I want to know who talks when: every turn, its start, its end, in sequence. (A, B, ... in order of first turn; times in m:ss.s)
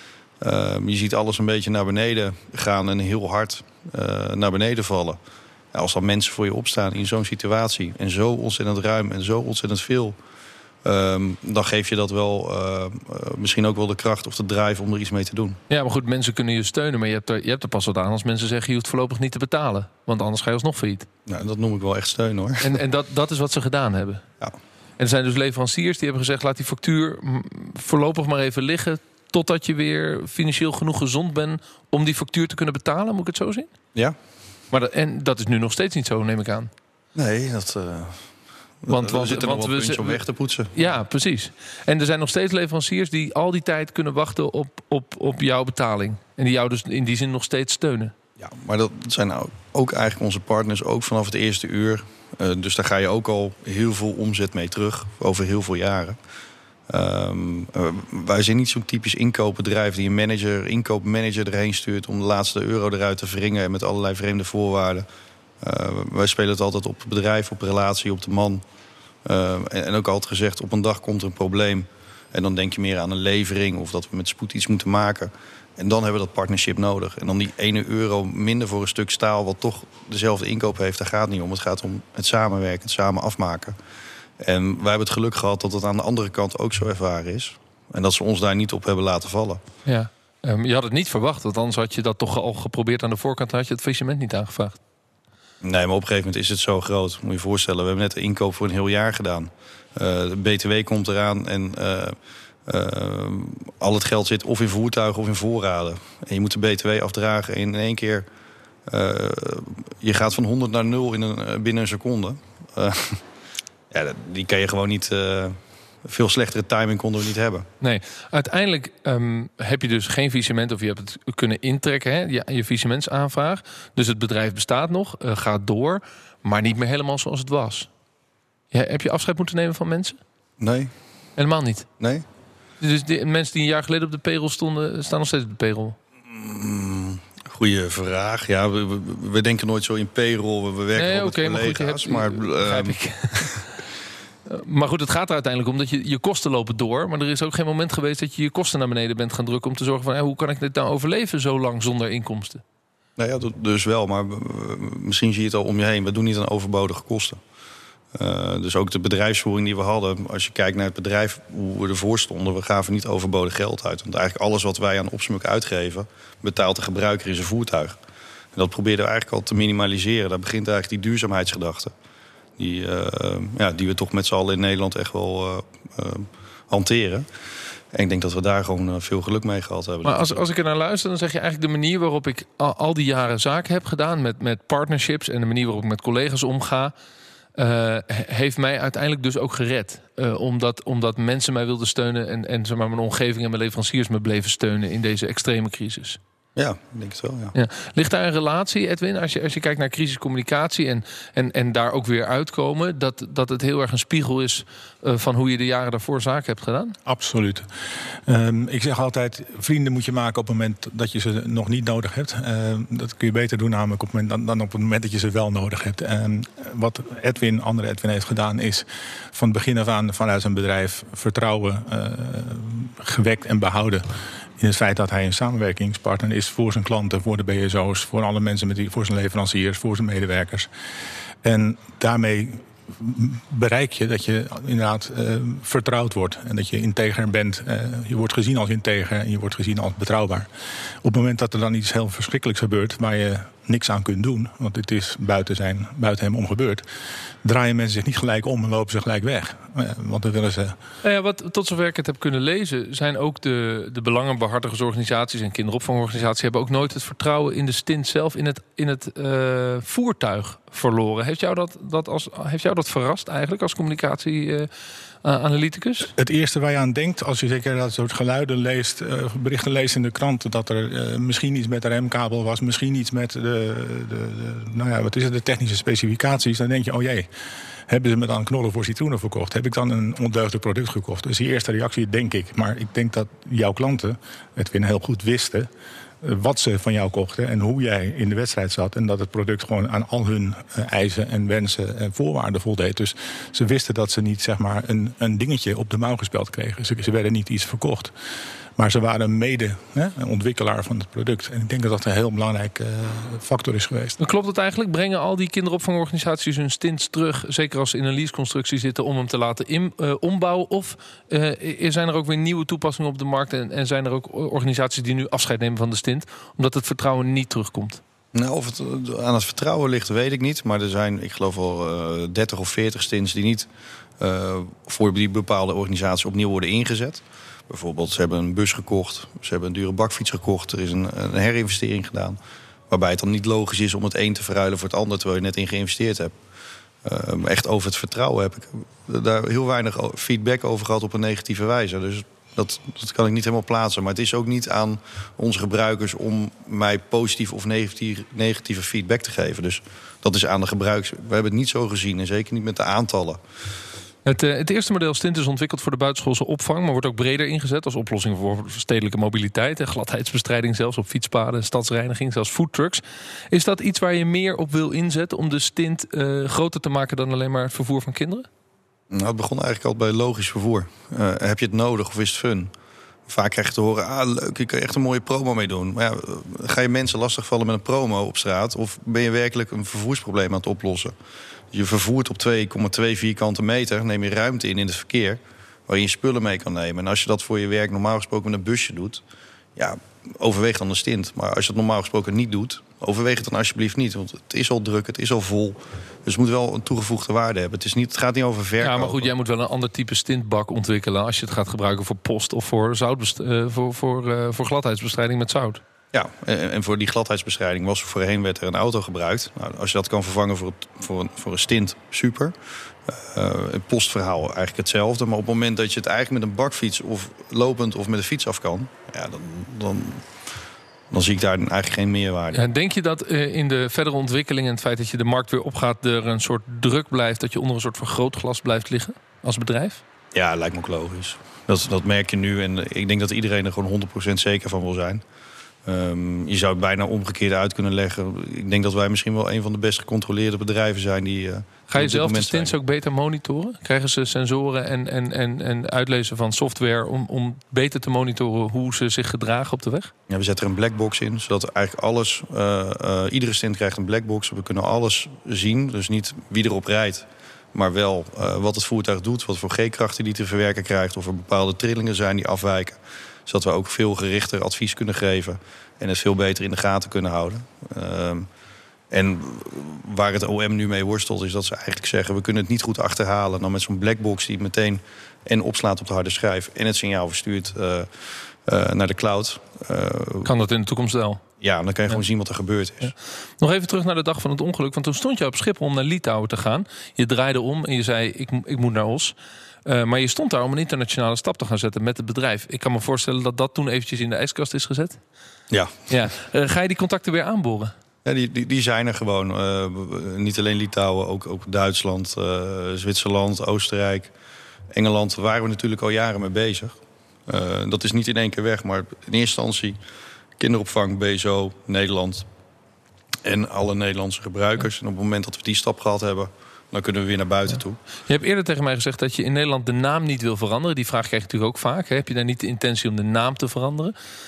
0:00.4-0:05.2 A
0:05.7-0:10.2 A
0:10.8-0:15.6 A
0:15.7-0:21.1 B
0:21.3-0:22.8 A
0:22.6-0:24.2 B
0:25.0-0:33.7 B
0:34.7-0:36.7 B
0:37.2-0:38.3 A
0:38.8-0:40.7 A
0:38.9-0:40.2 B
0:40.7-0:48.1 B
0:48.4-0:56.2 A
0:56.9-1:05.1 A
1:05.6-1:08.6 A
1:09.2-1:23.8 A
1:24.4-1:29.6 A
1:29.9-1:34.8 B
1:35.6-1:42.2 A
1:42.7-1:48.3 A
1:48.9-1:53.2 A
1:53.9-1:57.7 A
1:57.8-2:07.9 B
2:08.7-2:10.2 B
2:10.6-2:10.9 A
2:11.4-2:11.9 B
2:12.0-2:12.2 A
2:12.8-2:16.0 B
2:16.3-2:23.0 A
2:21.0-2:23.7 B
2:24.5-2:32.6 B
2:33.2-2:37.4 A
2:38.1-2:48.0 A
2:48.6-2:51.9 A
2:52.6-2:57.3 A
2:57.9-3:00.4 A
3:00.0-3:06.9 B
3:07.6-3:16.2 B
3:16.6-3:17.5 A
3:17.5-3:27.0 B
3:27.1-3:27.7 C
3:28.3-3:44.0 C
3:44.6-3:50.7 C
3:51.4-4:00.5 C
4:01.0-4:06.8 C
4:07.4-4:10.8 C
4:11.0-4:24.7 B
4:25.2-4:26.1 B
4:26.2-4:37.3 C
4:37.9-4:45.7 C
4:46.2-4:58.1 C
4:58.8-5:04.2 C
5:04.2-5:18.0 B
5:18.3-5:23.7 A
5:24.2-5:32.4 A
5:32.9-5:36.3 A
5:37.0-5:53.4 A
5:54.2-6:08.5 B
6:09.1-6:12.7 A
6:13.3-6:21.1 A
6:21.7-6:29.2 A
6:29.8-6:39.3 A
6:38.8-6:45.8 B
6:46.1-6:52.5 A
6:53.1-7:00.2 A
7:01.1-7:02.6 A
7:02.5-7:10.0 B
7:10.3-7:15.2 A
7:15.9-7:22.7 A
7:21.9-7:30.1 B
7:30.3-7:48.5 A
7:49.1-8:00.5 A
8:00.4-8:01.4 B
8:01.6-8:03.1 A
8:03.0-8:15.2 B
8:15.7-8:16.1 A
8:16.1-8:17.9 B
8:18.2-8:24.3 A
8:24.9-8:27.0 A
8:27.5-8:30.0 A
8:30.6-8:32.5 A
8:33.4-8:38.0 A
8:38.3-8:44.2 B